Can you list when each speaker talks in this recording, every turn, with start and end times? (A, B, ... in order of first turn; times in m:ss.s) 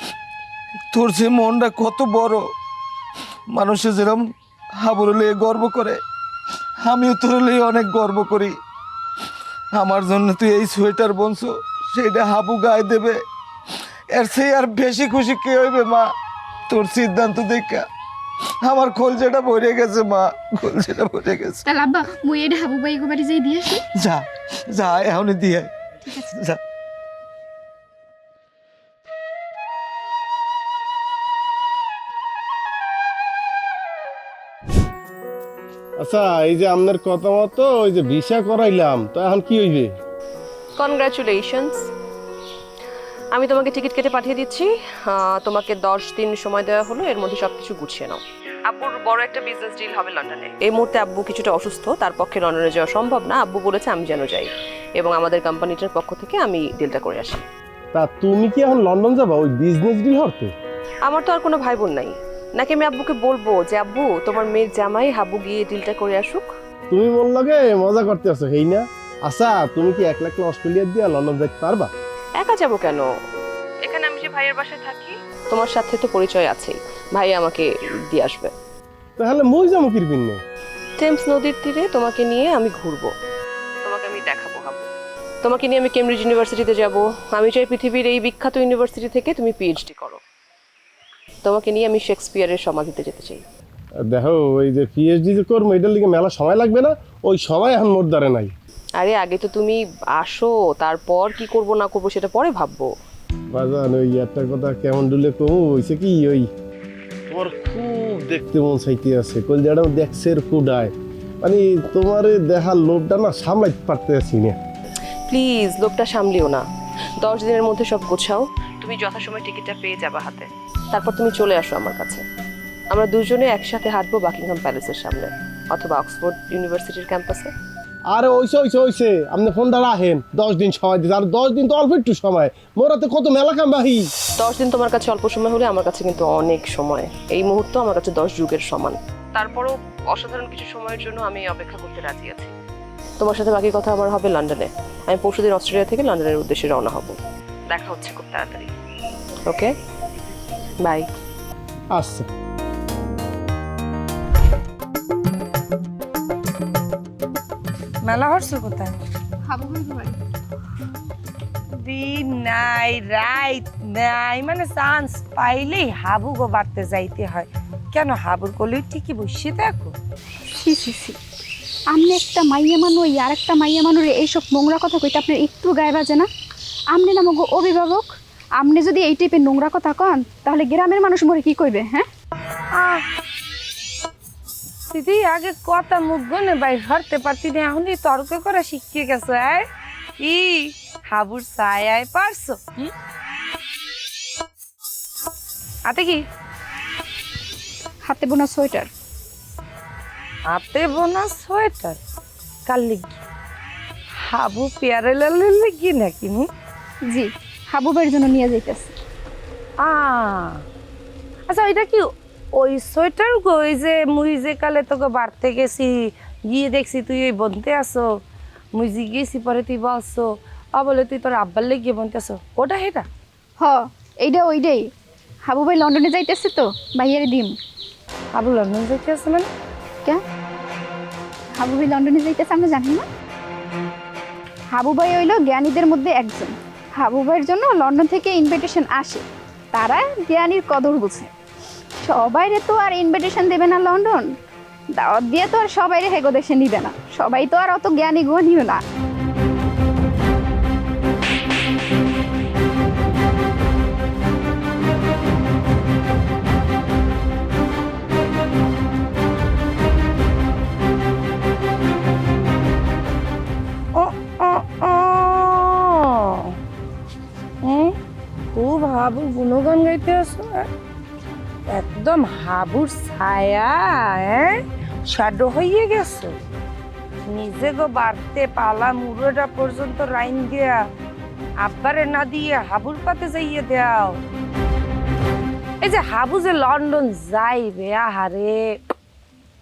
0:00.9-0:02.4 A
0:03.5-0:04.2 A
0:04.8-0:06.0 A
0:06.8-0:08.5 A
0:09.7-0:13.2 A
0:14.1-0:16.1 A
0:16.7-0:17.8 A
0:18.6-0:21.6 A
0:21.6-0:23.8 B
0:24.0-0:25.7 A
0:36.0-0:40.0 C
0:40.8-0:41.9 D
0:43.3-0:57.4 D
0:57.9-1:00.5 C
1:01.0-1:06.5 D
1:06.9-1:11.9 C
1:12.4-1:13.1 D
1:13.8-1:18.5 D
1:19.2-1:20.4 C
1:21.0-1:23.1 D
1:23.8-1:24.9 D
1:25.4-1:30.2 D
1:31.4-1:33.4 D
1:34.1-1:38.5 C
1:39.0-1:42.9 D
1:43.5-1:46.5 C
1:47.3-1:54.6 C
1:55.3-1:56.7 D
1:57.2-2:02.2 D
2:02.9-2:07.5 D
2:08.1-2:14.1 C
2:14.4-2:22.5 D
2:23.2-2:27.2 D
2:27.7-2:28.7 D
2:29.4-2:29.7 D
2:30.8-2:31.1 D
2:31.9-2:32.3 C
2:38.0-2:39.0 E
2:39.5-2:40.2 B
2:41.8-2:49.9 E
2:50.6-2:51.2 B
2:51.9-2:56.3 B
2:56.9-3:02.1 B
3:02.8-3:03.0 E
3:04.9-3:09.6 E
3:10.2-3:12.9 E
3:15.9-3:16.2 E
3:18.0-3:18.9 B
3:20.5-3:22.0 E
3:22.7-3:23.2 E
3:24.2-3:26.5 E
3:27.1-3:28.9 B
3:29.8-3:30.6 E
3:31.5-3:32.0 E
3:32.6-3:38.1 E
3:38.7-3:43.1 E
3:43.6-3:44.9 B
3:45.5-3:47.6 B
3:48.3-3:49.5 E
3:51.6-3:53.0 B
3:54.7-4:01.3 B
4:02.0-4:04.3 B
4:05.0-4:08.8 B
4:24.0-4:26.6 E
4:27.6-4:27.9 E
4:28.6-4:30.7 E
4:31.7-4:34.6 E
4:35.1-4:36.3 E
4:37.3-4:40.8 E
4:41.6-4:44.2 E
4:45.8-4:48.7 E